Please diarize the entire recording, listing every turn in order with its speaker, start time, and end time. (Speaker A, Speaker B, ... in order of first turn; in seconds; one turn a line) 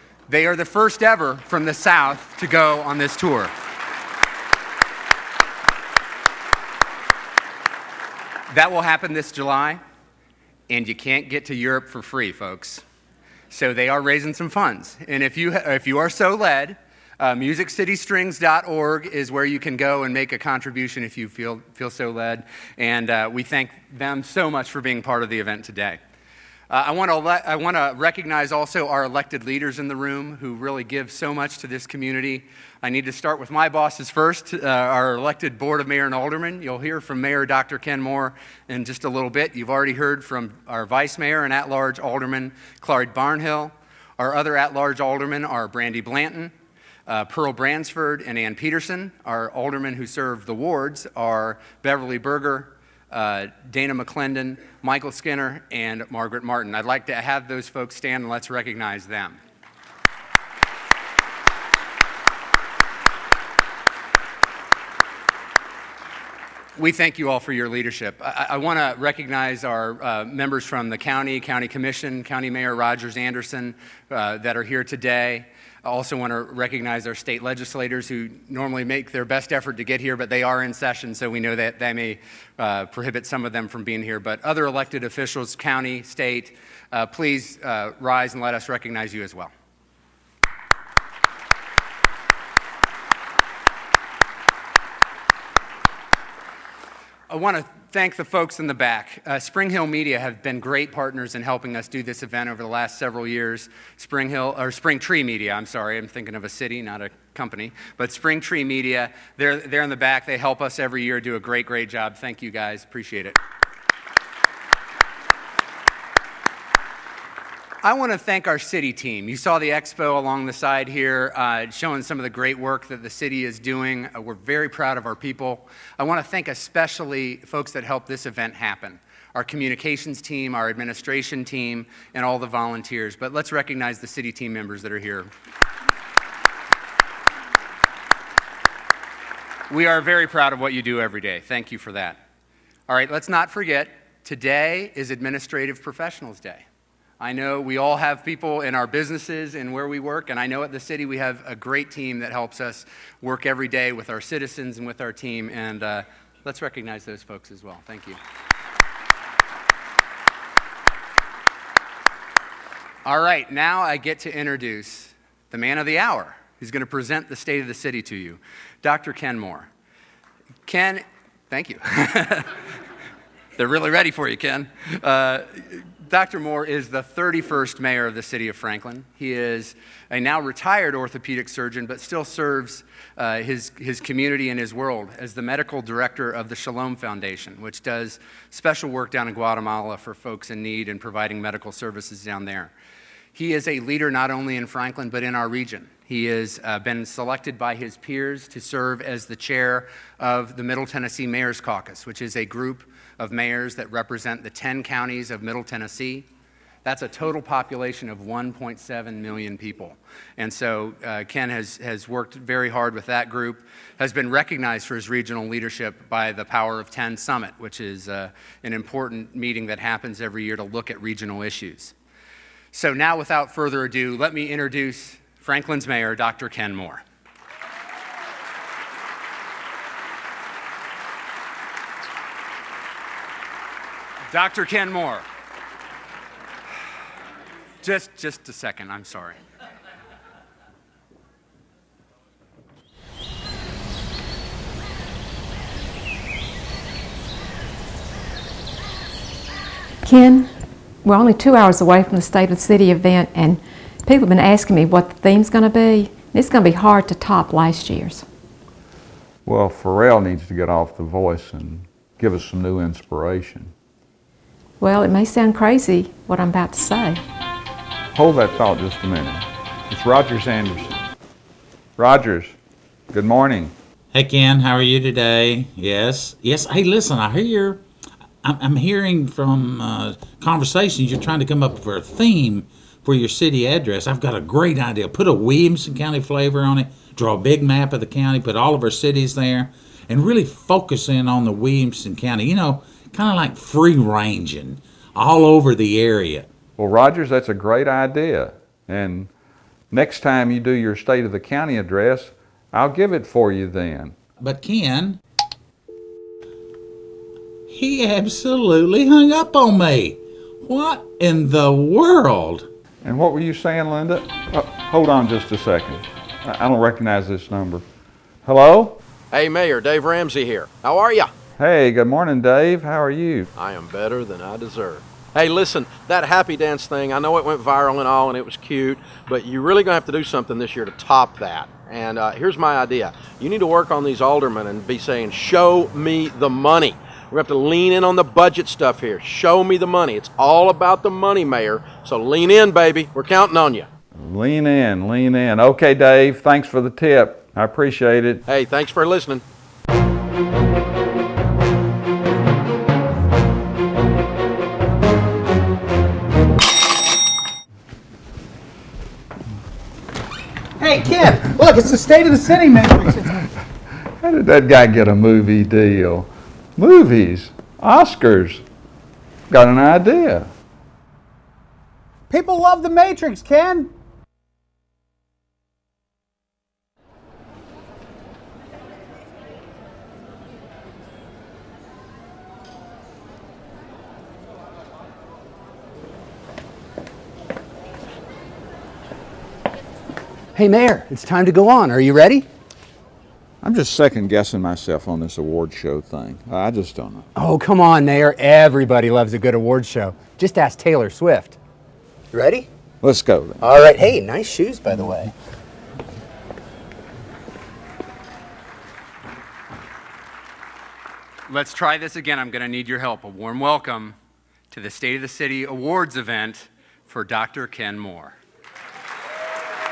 Speaker A: 0.3-3.5
Speaker A: 8.5-9.8
Speaker A: 10.7-12.8
Speaker A: 13.5-26.0
Speaker A: 26.7-46.5
Speaker A: 47.1-59.4
Speaker A: 66.8-89.5
Speaker A: 97.3-113.4
Speaker A: 117.8-135.3
Speaker A: 139.7-142.2
Speaker A: 142.9-146.6
Speaker A: 147.2-158.2
Speaker A: 163.0-169.7
Speaker A: 170.7-172.5
Speaker A: 173.6-192.7
Speaker A: 193.3-206.3
Speaker A: 206.8-221.9
Speaker A: 222.7-227.0
Speaker A: 234.3-235.2
Speaker A: 237.8-239.4
Speaker B: 250.0-258.2
Speaker C: 259.4-263.7
Speaker B: 264.8-267.2
Speaker C: 268.1-270.9
Speaker C: 272.0-272.6
Speaker C: 273.1-273.7
Speaker D: 274.1-277.8
Speaker D: 278.4-296.5
Speaker C: 296.8-299.3
Speaker C: 299.9-304.2
Speaker D: 304.4-305.2
Speaker D: 307.7-312.7
Speaker C: 313.0-317.8
Speaker C: 318.4-319.0
Speaker E: 319.3-321.3
Speaker C: 321.6-323.5
Speaker E: 323.5-343.9
Speaker C: 344.1-348.4
Speaker E: 348.5-349.4
Speaker F: 360.8-363.4
Speaker C: 364.2-368.6
Speaker C: 369.5-370.5
Speaker F: 372.3-373.9
Speaker A: 390.6-392.5
Speaker C: 393.6-397.3
Speaker A: 397.4-401.6
Speaker C: 403.0-403.6
Speaker A: 411.5-414.1
Speaker A: 414.7-418.4